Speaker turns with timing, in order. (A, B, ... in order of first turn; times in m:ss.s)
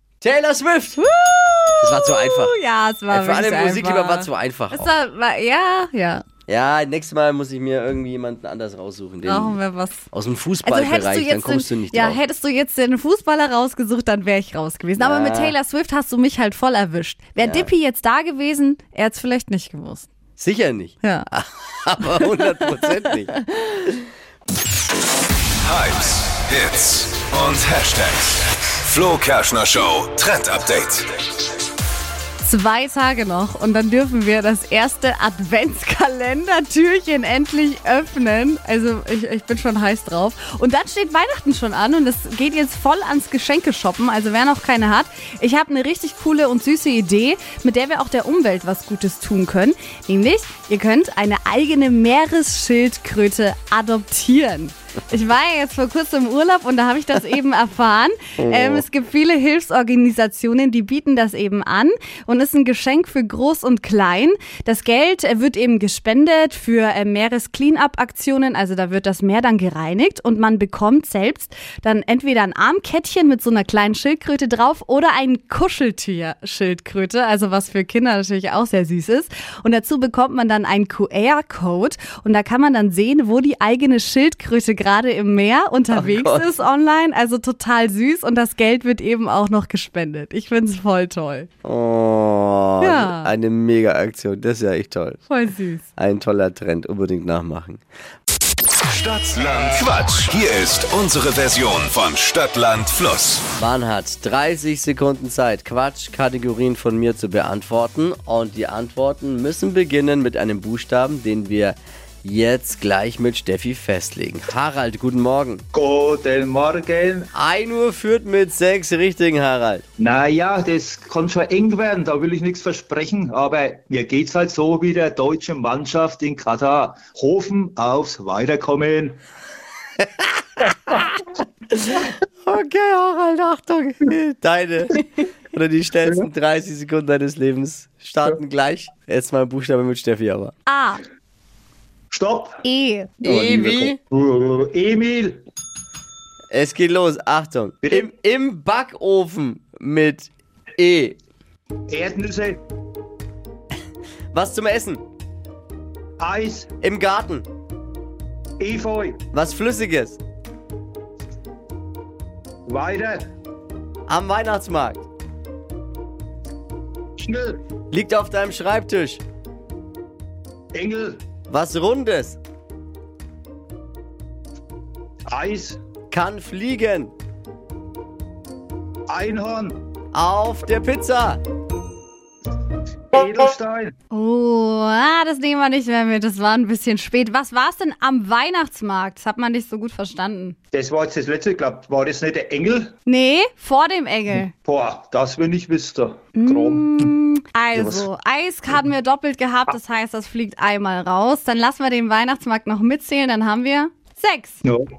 0:00.2-0:01.1 A
0:01.0-0:06.2 B
0:01.8-0:02.6 A
0:03.1-0:04.9 A
0:06.5-0:09.6 A
0:09.2-0:10.0 B
0:10.1-0:12.2 A
0:10.6-0:20.1 B
0:15.0-0:15.6 A
0:17.4-0:17.7 A
0:20.4-0:23.3 A
0:21.0-0:21.3 B
0:22.1-0:23.8 B
0:25.6-0:31.1 C
0:32.4-1:31.5 B
0:58.4-0:58.8 A
1:25.9-1:26.5 A
1:31.6-1:35.2 A
1:32.8-1:33.3 B
1:35.3-1:35.8 B
1:36.0-1:37.8 A
1:38.9-1:43.4 C
1:43.6-1:55.6 A
1:55.7-1:57.3 D
1:57.3-1:59.8 A
2:00.0-2:09.2 D
2:11.9-2:15.0 A
2:15.5-2:20.5 A
2:20.7-2:21.0 B
2:22.1-2:22.6 D
2:22.6-2:23.1 B
2:23.2-2:25.4 D
2:23.2-2:24.0 A
2:26.5-2:31.2 A
2:27.8-2:28.1 D
2:31.9-2:32.6 D
2:34.3-2:35.0 A
2:36.2-2:36.7 D
2:36.8-2:37.4 A
2:38.6-2:39.2 D
2:39.3-2:40.2 A
2:42.7-2:43.2 D
2:44.1-2:45.0 A
2:47.2-2:47.6 D
2:47.9-2:49.2 A
2:50.7-2:51.2 D
2:51.5-2:52.4 A
2:55.3-2:55.8 D
2:56.1-2:57.1 A
2:59.1-2:59.8 D
3:00.1-3:01.4 A
3:03.1-3:03.9 D
3:04.1-3:10.6 B
3:10.7-3:12.9 D
3:13.0-3:14.5 B
3:14.6-3:17.1 D
3:16.3-3:24.6 B
3:17.7-3:18.1 D